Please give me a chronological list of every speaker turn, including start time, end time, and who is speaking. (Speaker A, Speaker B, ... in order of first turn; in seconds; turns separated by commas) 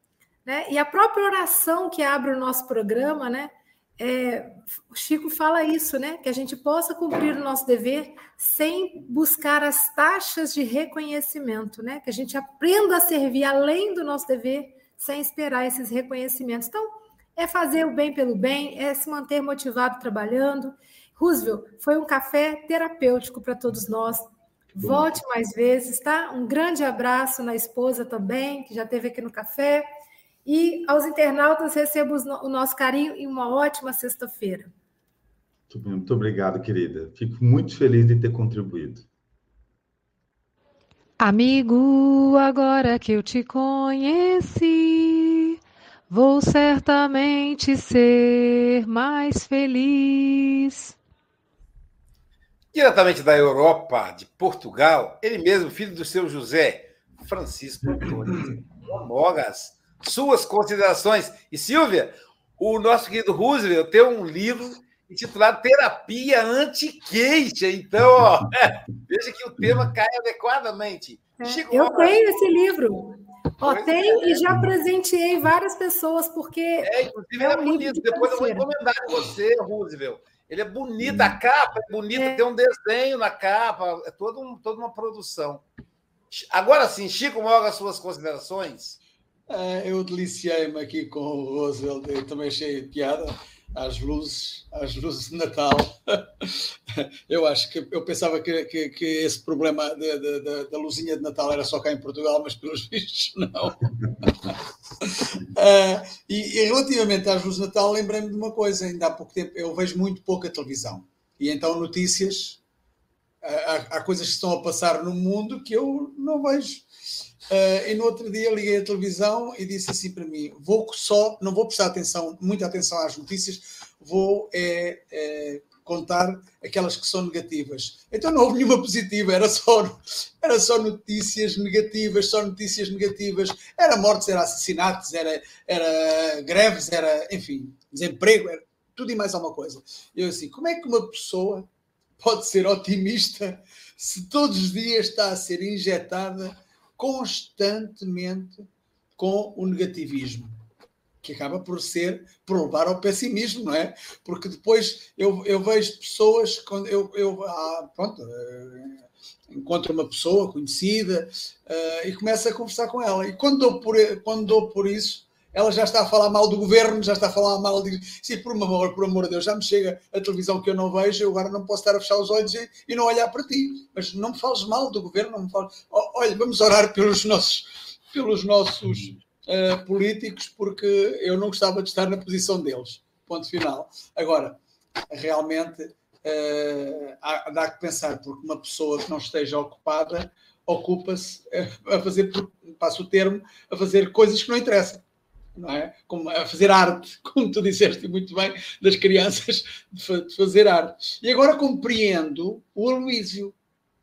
Speaker A: 0.4-29.8, Speaker B: 24.8-25.1, Speaker A: 30.4-34.7, Speaker B: 35.7-39.1, Speaker C: 41.2-45.6, Speaker C: 46.1-51.0, Speaker D: 52.7-72.2, Speaker A: 71.4-78.7, Speaker D: 73.6-74.4, Speaker D: 76.8-85.6, Speaker A: 82.1-82.4, Speaker D: 86.3-89.0, Speaker E: 89.5-112.6, Speaker E: 113.4-116.9, Speaker E: 117.5-150.6, Speaker E: 151.2-184.6, Speaker E: 185.1-195.0, Speaker E: 195.6-203.6